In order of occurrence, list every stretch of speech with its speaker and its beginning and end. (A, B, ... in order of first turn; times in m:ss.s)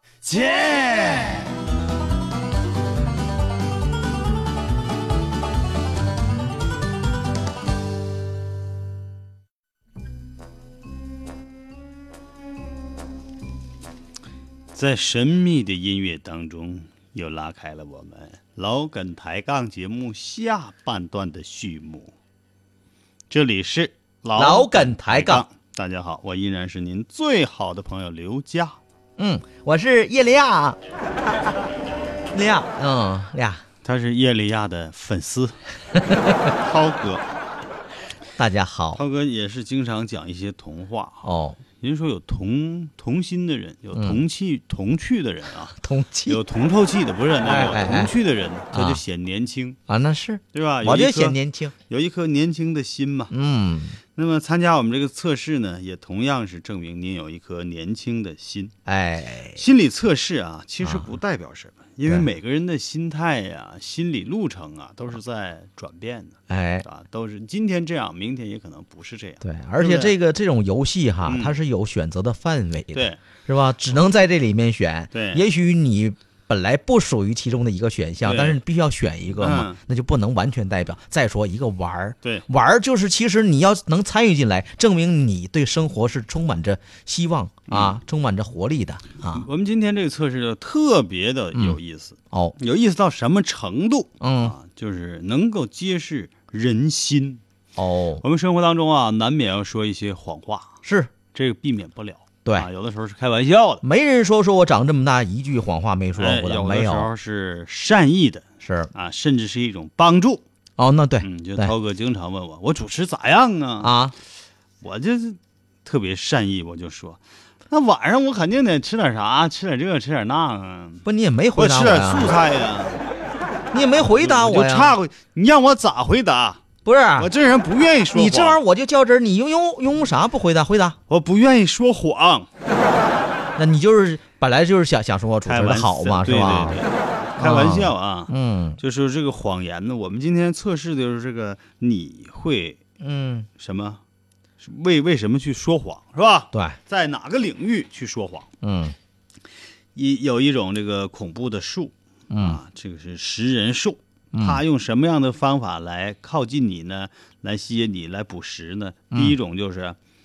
0:00.3-0:01.4 A
0:14.7-0:22.1 A
0:23.3-0:28.8 A
0:24.4-0:25.4 B
0:29.2-0:30.8 B
0:32.3-0:33.6 B
0:33.8-0:35.6 A
0:36.5-0:37.2 A
0:38.4-0:39.0 B
0:39.0-0:41.3 A
0:41.2-0:41.6 B
0:41.8-0:45.8 A
0:43.9-0:44.2 B
0:45.8-0:46.4 B
0:46.3-0:49.8 A
0:47.4-0:48.1 B
0:48.7-0:49.0 B
0:49.9-0:51.7 B
0:50.5-0:51.4 A
0:51.9-0:53.3 A
0:53.3-0:54.0 B
0:54.2-0:58.7 A
0:58.9-0:59.6 B
0:59.6-1:10.1 A
1:06.5-1:06.9 B
1:09.4-1:29.5 B
1:11.2-1:11.6 A
1:12.9-1:13.2 A
1:15.1-1:15.4 A
1:18.2-1:18.6 A
1:19.4-1:19.8 A
1:27.7-1:28.0 A
1:29.3-1:37.4 A
1:34.2-1:34.6 B
1:37.8-1:38.2 B
1:38.2-1:40.8 A
1:40.8-1:41.1 B
1:41.3-1:43.8 A
1:43.8-1:47.1 B
1:46.2-1:50.4 A
1:48.6-1:48.9 B
1:50.8-1:51.7 B
1:51.2-1:54.0 A
1:53.8-1:54.2 B
1:54.8-2:01.0 A
2:01.0-2:02.3 B
2:01.6-2:03.0 A
2:03.7-2:05.0 B
2:04.2-2:06.6 A
2:06.8-2:07.3 B
2:07.2-2:08.6 A
2:08.1-2:11.0 B
2:11.1-2:12.5 A
2:13.6-2:16.8 B
2:15.5-2:22.8 A
2:17.4-2:18.8 B
2:23.0-2:23.5 B
2:23.6-2:24.0 A
2:24.6-2:28.5 A
2:26.5-2:26.8 B
2:28.6-2:29.0 B
2:30.0-2:40.0 A
2:32.3-2:32.6 B
2:34.3-2:34.6 B